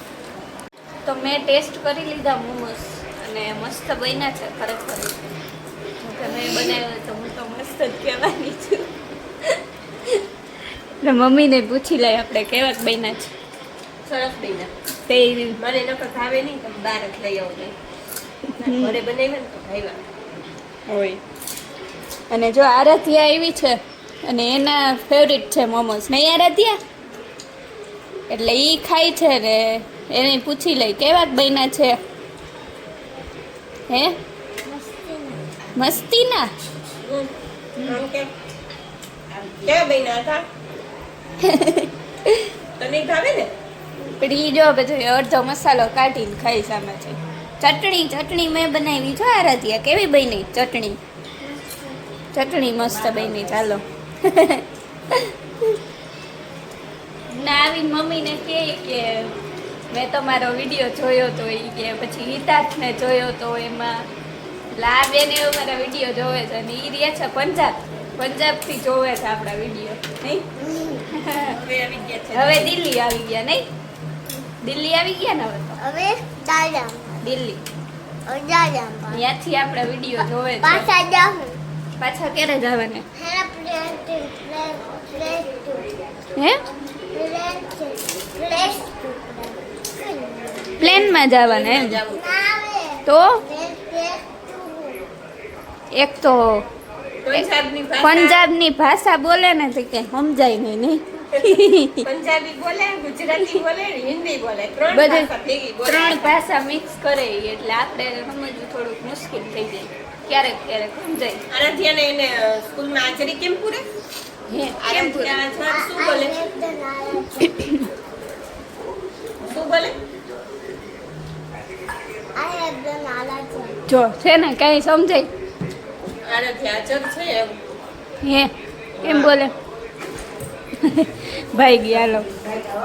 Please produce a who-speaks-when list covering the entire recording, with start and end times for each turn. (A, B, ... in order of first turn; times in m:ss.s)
0:01.0-0:05.2 A
0:06.0-0:10.2 A
0:06.2-0:06.7 B
0:11.0-0:13.3 A
0:14.0-0:14.7 B
0:15.0-0:15.6 A
0:15.6-0:17.8 B
0:18.5-0:19.0 A
0:18.6-0:20.0 B
0:20.9-0:21.2 A
0:22.3-0:26.8 A
0:28.3-0:32.0 A
0:33.9-0:34.2 A
0:34.6-0:35.6 C
0:35.7-0:36.5 A
0:37.0-0:38.3 B
0:39.3-0:40.4 B
0:41.4-0:42.5 A
0:42.8-0:43.5 B
0:44.0-0:51.0 A
0:52.3-0:55.8 A
0:57.3-0:59.4 A
0:59.9-1:04.1 A
1:04.7-1:10.5 A
1:10.6-1:11.1 C
1:11.1-1:11.6 A
1:11.3-1:12.8 B
1:12.3-1:13.7 A
1:14.5-1:15.8 A
1:15.8-1:17.2 C
1:17.2-1:17.6 A
1:18.2-1:19.2 C
1:19.1-1:20.9 A
1:20.6-1:21.6 C
1:22.0-1:23.0 A
1:23.1-1:26.0 C
1:26.3-1:26.7 A
1:27.1-1:30.9 C
1:30.8-1:32.0 A
1:30.8-1:32.4 B
1:32.1-1:35.1 C
1:33.0-1:33.4 A
1:36.0-1:36.7 A
1:37.2-1:38.4 B
1:38.0-1:42.0 A
1:41.4-1:46.4 B
1:44.9-1:45.3 A
1:45.8-1:51.4 A
1:51.5-1:53.8 B
1:54.5-1:55.4 A
1:54.8-1:56.5 B
1:55.6-1:57.6 C
1:57.4-1:57.9 A
1:59.4-2:00.0 B
2:02.3-2:03.8 C
2:03.9-2:05.3 A
2:06.2-2:07.6 B
2:08.2-2:09.5 A
2:09.0-2:09.3 B
2:10.7-2:12.4 A